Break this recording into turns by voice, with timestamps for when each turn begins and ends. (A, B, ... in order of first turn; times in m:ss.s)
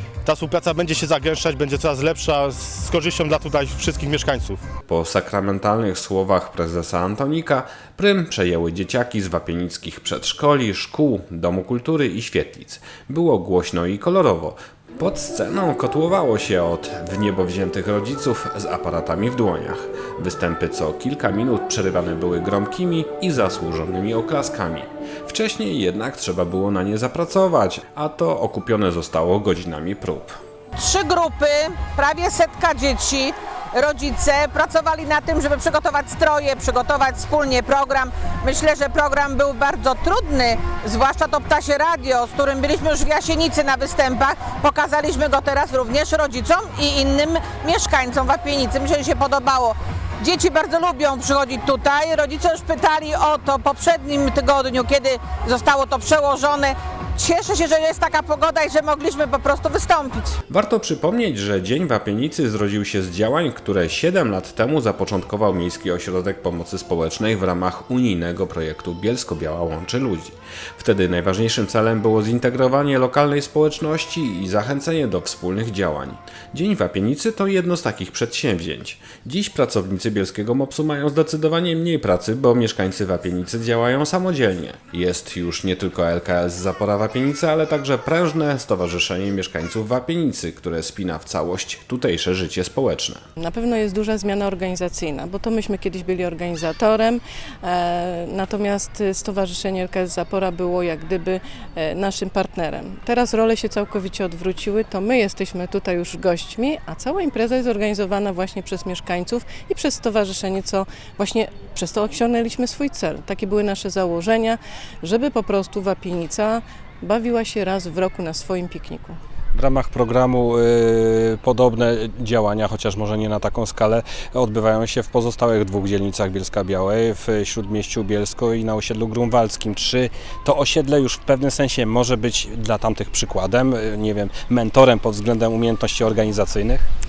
0:00.2-0:04.6 A
0:04.9-0:30.4 B
0:30.8-1:00.4 C
1:00.5-1:33.2 B
1:33.4-1:59.2 D
1:59.5-2:16.8 E